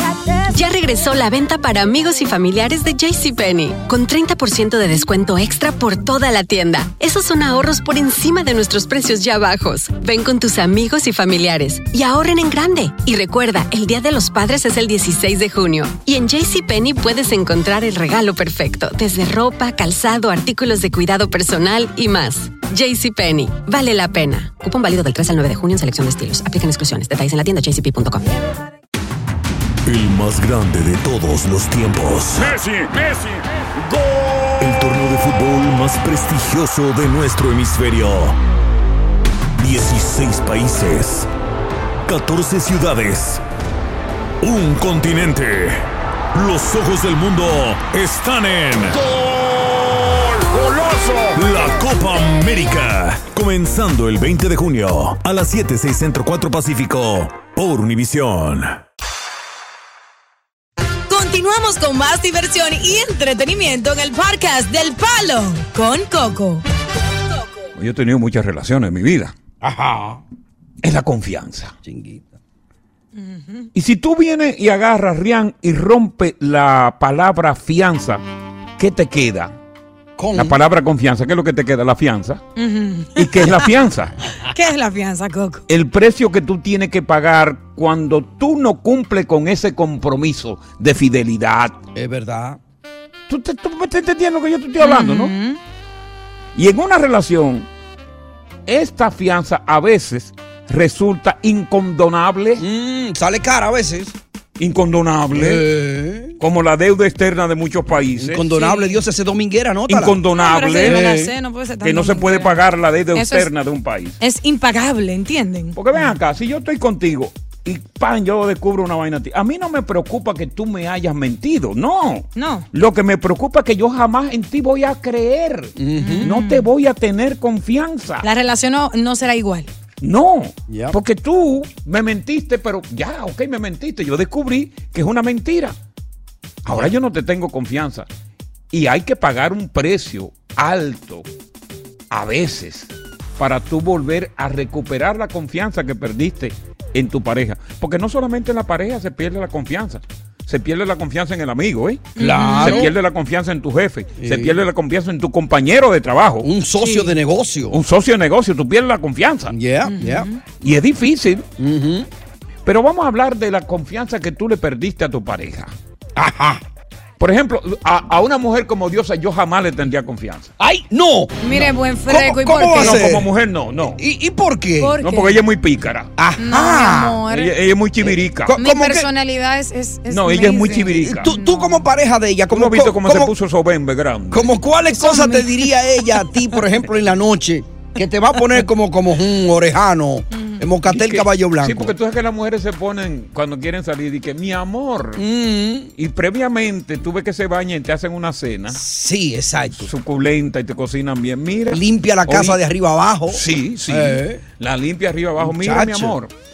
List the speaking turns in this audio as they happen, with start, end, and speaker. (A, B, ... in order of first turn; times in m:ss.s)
0:00.5-0:28.3 A
0:29.9-0:33.1 B
0:34.6-0:38.4 B
0:39.6-0:41.3 B
0:42.1-0:43.4 B
0:44.4-0:49.0 B
0:50.4-0:58.8 B
1:01.1-1:06.6 C
1:07.8-1:09.3 D
1:09.6-1:10.2 E
1:10.8-1:11.8 D
1:11.8-1:12.3 E
1:13.2-1:13.7 C
1:13.7-1:18.2 D
1:18.8-1:19.6 D
1:20.2-1:20.6 E
1:20.4-1:22.4 D
1:22.6-1:23.6 C
1:23.2-1:24.1 D
1:24.5-1:25.6 C
1:25.7-1:31.8 D
1:31.9-1:32.6 E
1:33.3-1:35.3 D
1:34.8-1:35.6 C
1:36.6-1:37.7 D
1:38.7-1:42.6 D
1:42.6-1:44.2 E
1:44.6-1:45.6 D
1:45.3-1:46.4 E
1:46.4-1:48.4 D
1:48.2-1:50.2 E
1:48.5-1:49.0 C
1:49.9-1:51.0 D
1:50.4-1:52.6 C
1:50.7-1:51.3 E
1:51.8-1:54.2 D
1:53.1-1:53.5 C
1:54.2-1:56.0 C
1:55.8-2:08.3 D
2:02.4-2:02.7 C
2:05.8-2:06.4 E
2:06.0-2:06.6 C
2:08.2-2:09.7 C
2:10.0-2:15.8 D
2:10.7-2:11.0 E
2:16.6-2:16.9 E
2:16.7-2:18.1 D
2:18.7-2:21.3 D
2:22.1-2:36.5 D
2:32.2-2:32.9 C
2:32.2-2:32.9 E
2:34.2-2:34.6 E
2:36.4-2:37.8 E
2:36.8-2:37.1 C
2:37.7-2:39.6 D
2:39.5-2:40.3 E
2:39.8-2:40.4 C
2:40.6-2:41.5 D
2:41.6-2:42.1 E
2:42.6-2:45.7 D
2:46.2-2:46.6 E
2:47.2-2:50.5 D
2:50.6-2:53.3 E
2:51.4-2:53.0 C
2:52.7-2:54.0 D
2:53.9-2:55.0 E
2:54.8-2:55.4 C
2:55.0-2:56.1 D
2:56.2-2:57.2 E
2:56.4-2:57.5 C
2:57.3-2:58.6 D
2:58.0-2:59.1 E
2:58.6-3:01.9 C
3:00.1-3:01.3 D
3:01.0-3:03.3 E
3:02.5-3:04.5 D
3:04.3-3:11.9 E
3:04.9-3:05.7 C
3:10.3-3:10.6 C
3:10.9-3:15.2 D
3:15.2-3:15.9 E
3:16.0-3:18.8 D
3:18.7-3:19.9 E
3:19.8-3:22.6 D
3:21.7-3:24.4 E
3:23.3-3:26.3 D
3:25.4-3:26.2 E